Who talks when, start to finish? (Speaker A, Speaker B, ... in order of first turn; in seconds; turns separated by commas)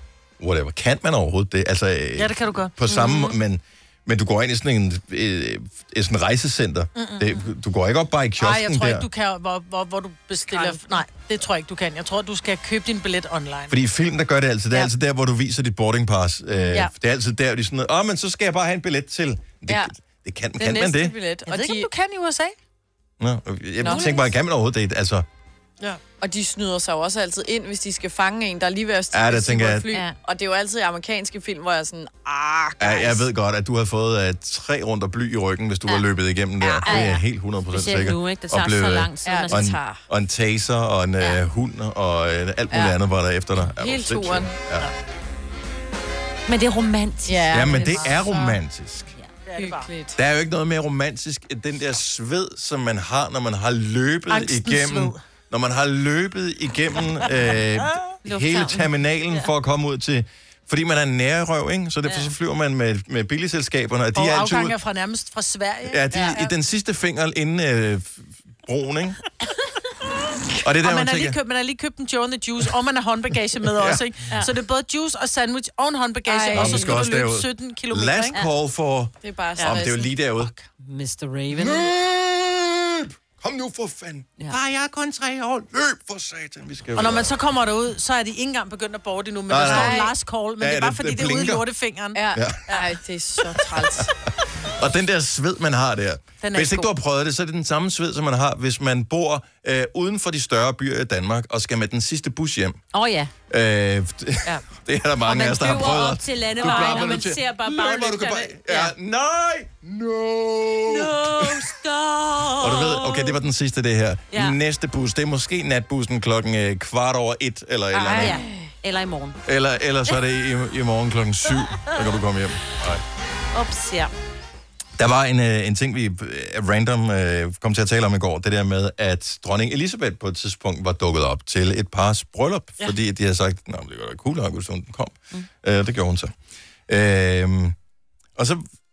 Speaker A: 0.4-9.1, Speaker B: 2.2-2.7, Speaker C: 2.9-3.4, Speaker B: 7.0-7.5, Speaker B: 8.4-13.8, Speaker D: 10.5-11.0, Speaker A: 13.7-21.2, Speaker D: 20.6-21.9, Speaker B: 21.5-22.6, Speaker A: 23.2-25.3, Speaker D: 23.8-24.1, Speaker C: 23.8-24.3, Speaker D: 26.2-33.3, Speaker A: 29.1-29.9, Speaker C: 29.9-30.2, Speaker A: 32.8-44.9, Speaker D: 36.6-37.1, Speaker C: 36.8-39.8, Speaker D: 39.2-40.0, Speaker D: 43.8-44.6, Speaker C: 46.5-48.6, Speaker D: 47.3-47.9, Speaker A: 47.5-49.1, Speaker B: 49.5-49.9, Speaker D: 49.6-50.2, Speaker A: 50.2-64.8, Speaker B: 54.3-55.2, Speaker C: 58.2-59.5, Speaker C: 62.0-62.3, Speaker B: 64.2-66.4, Speaker A: 65.9-69.2, Speaker D: 66.1-66.4, Speaker A: 70.6-71.4, Speaker B: 70.8-78.4, Speaker A: 73.7-74.0, Speaker D: 76.3-77.0, Speaker A: 76.5-80.5, Speaker D: 79.2-80.1, Speaker B: 79.6-79.8, Speaker B: 80.4-80.7, Speaker C: 80.8-81.9, Speaker A: 81.5-87.3, Speaker B: 87.0-92.9, Speaker A: 89.5-90.1, Speaker D: 89.6-90.1, Speaker A: 90.6-91.7, Speaker D: 92.1-94.1, Speaker A: 92.3-92.7, Speaker A: 93.6-94.0, Speaker A: 94.6-102.8, Speaker B: 96.4-96.9, Speaker C: 102.9-103.3, Speaker A: 103.5-111.6, Speaker C: 105.2-108.9, Speaker B: 106.6-107.1, Speaker C: 110.9-113.4, Speaker A: 112.6-118.4, Speaker C: 114.3-114.6, Speaker D: 118.0-118.5, Speaker C: 118.0-119.4, Speaker A: 119.5-123.0, Speaker C: 123.5-124.1, Speaker A: 125.0-136.3, Speaker A: 136.9-137.8, Speaker A: 138.4-138.7